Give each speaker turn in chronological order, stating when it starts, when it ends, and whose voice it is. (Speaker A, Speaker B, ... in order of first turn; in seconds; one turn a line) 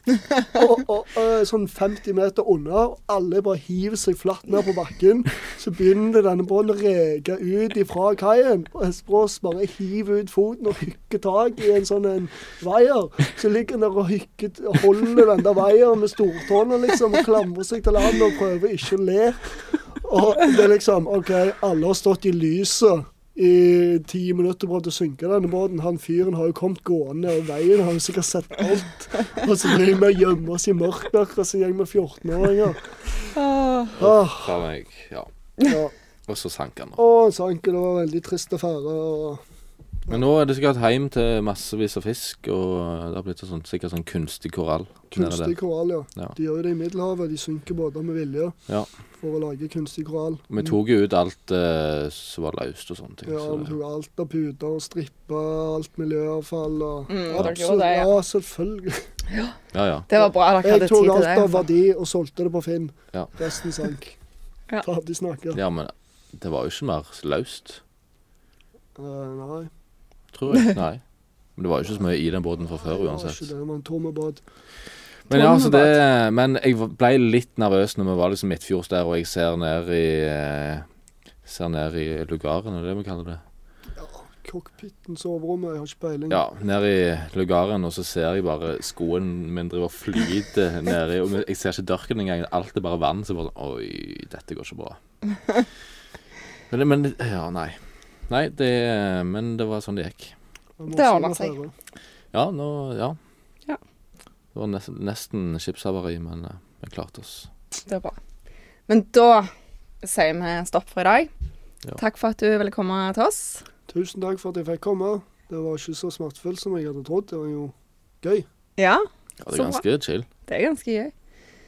Speaker A: 0.5-32.9
Speaker B: 33.3-34.0
Speaker A: 34.0-34.6
Speaker C: 34.0-35.3
Speaker A: 35.6-35.9
Speaker C: 36.3-37.0
Speaker A: 37.0-39.4
Speaker C: 40.1-45.5
Speaker A: 45.1-48.6
Speaker A: 49.2-50.7
Speaker C: 50.5-53.8
Speaker A: 53.3-59.1
Speaker B: 57.1-58.1
Speaker B: 59.3-59.6
Speaker C: 59.7-60.1
Speaker B: 60.1-61.6
Speaker A: 60.2-64.2
Speaker A: 64.8-65.6
Speaker C: 65.5-67.8
Speaker A: 69.0-69.7
Speaker C: 70.3-71.0
Speaker C: 71.6-73.5
Speaker A: 72.8-74.4
Speaker C: 75.3-80.9
Speaker B: 75.3-76.0
Speaker C: 81.5-83.4
Speaker A: 83.9-86.4
Speaker C: 86.3-95.0
Speaker C: 96.7-100.3
Speaker A: 100.8-101.7
Speaker B: 100.9-101.5
Speaker C: 102.3-103.2
Speaker C: 104.5-107.5
Speaker B: 107.9-108.2
Speaker B: 108.9-109.5
Speaker B: 110.0-111.3
Speaker B: 112.0-113.7
Speaker A: 113.9-118.5
Speaker B: 118.8-119.8
Speaker C: 119.4-120.3
Speaker B: 120.5-121.1